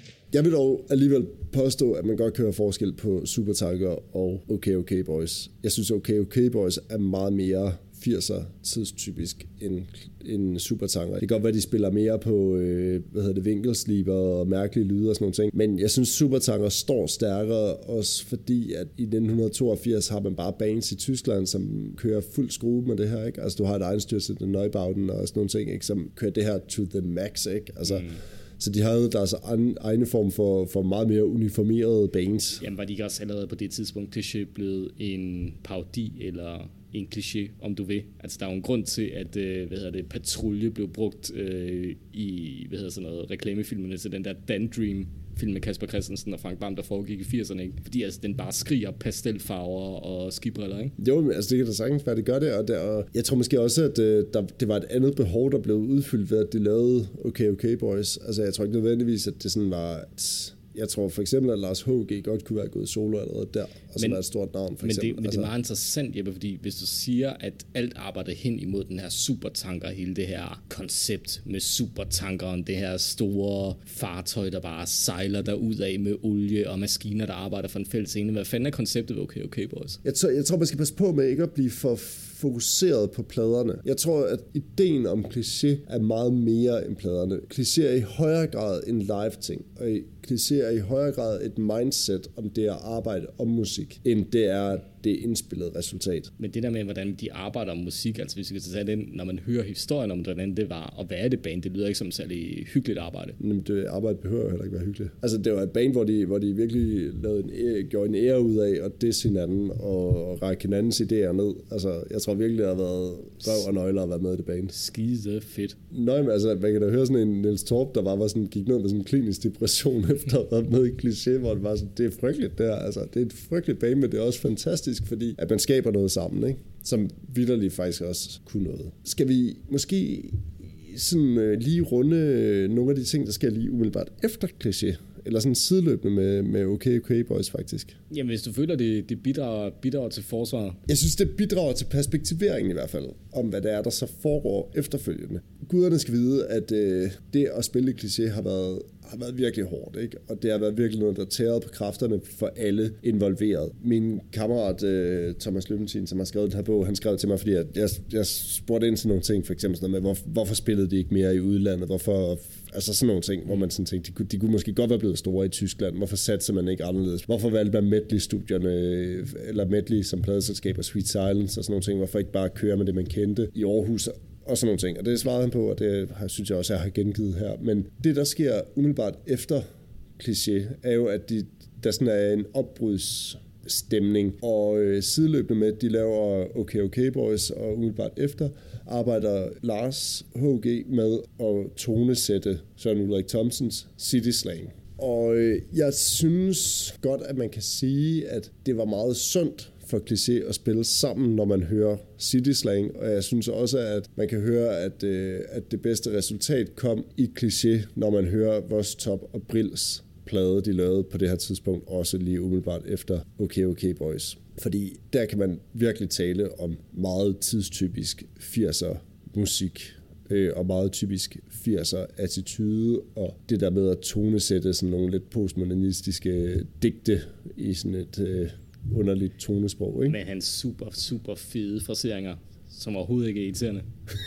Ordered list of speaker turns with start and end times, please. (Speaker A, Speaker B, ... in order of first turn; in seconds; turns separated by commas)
Speaker A: 0.3-32.6, Speaker B: 27.9-28.2, Speaker B: 32.6-50.9, Speaker A: 51.0-65.5, Speaker B: 64.8-80.0, Speaker A: 80.0-96.3, Speaker B: 96.4-103.4, Speaker A: 103.4-114.7, Speaker B: 114.7-115.8, Speaker A: 115.9-138.0, Speaker B: 138.1-140.8, Speaker A: 140.9-179.7, Speaker A: 180.2-230.2, Speaker B: 230.1-233.9